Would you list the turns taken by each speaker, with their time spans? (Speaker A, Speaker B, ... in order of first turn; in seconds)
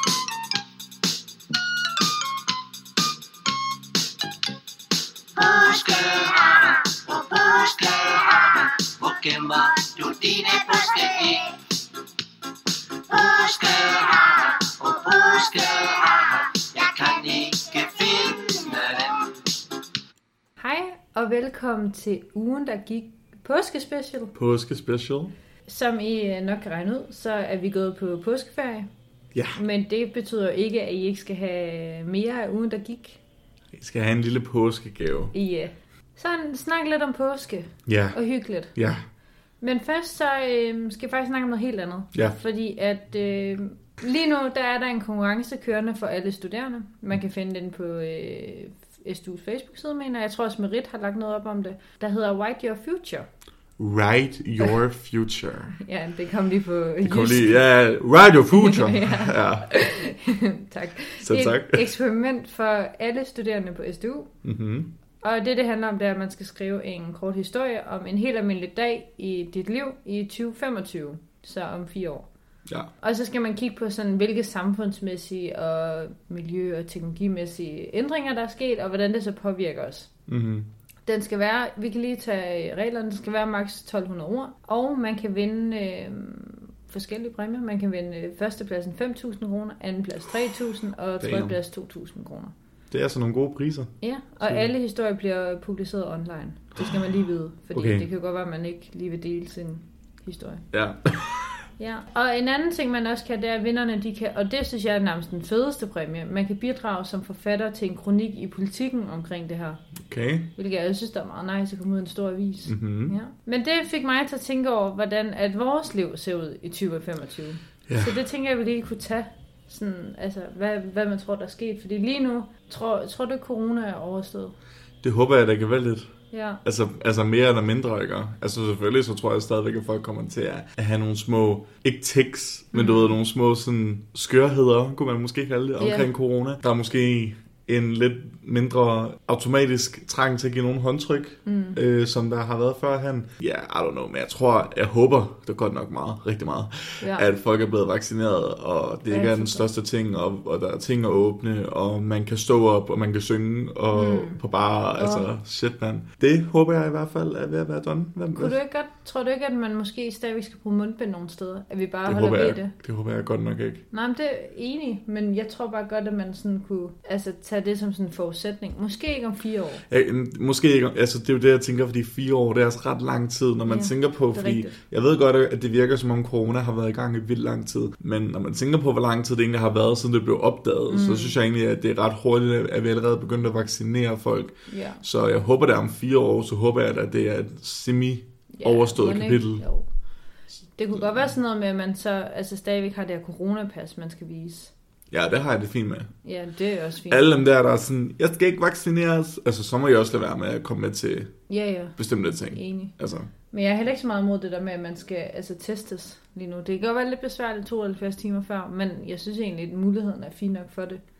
Speaker A: 5.3-11.6, 13.1-19.4
Speaker B: 20.6-24.3, 25.7-28.9, 29.5-33.2, 35.3-38.8, 39.6-53.3, 55.7-57.6, 58.5-64.3, 65.2-72.3, 73.0-80.1, 81.0-92.5, 94.0-100.7, 101.8-109.8, 110.5-124.5, 126.3-126.6, 132.7-133.1, 135.8-136.1, 141.4-141.8, 147.0-147.3, 149.1-149.7, 153.9-154.4, 154.9-155.3, 158.3-162.7, 163.9-169.8, 173.7-174.8, 180.9-181.4, 184.7-185.0, 188.5-189.9, 190.7-194.7, 196.2-197.3, 201.5-202.9, 203.5-211.0
Speaker C: 24.3-25.3, 29.3-29.6, 33.7-35.3, 37.9-38.2, 38.7-39.0, 53.8-55.7, 57.0-59.7, 61.2-61.9, 64.4-64.9, 80.3-80.7, 91.2-91.6, 92.9-93.9, 94.4-94.7, 97.7-98.1, 100.7-101.6, 110.1-110.5, 112.7-113.2, 117.9-118.2, 125.0-126.1, 126.6-158.6, 162.0-163.8, 169.9-189.6, 190.9-191.3, 195.1-196.1, 197.1-201.3, 202.0-203.3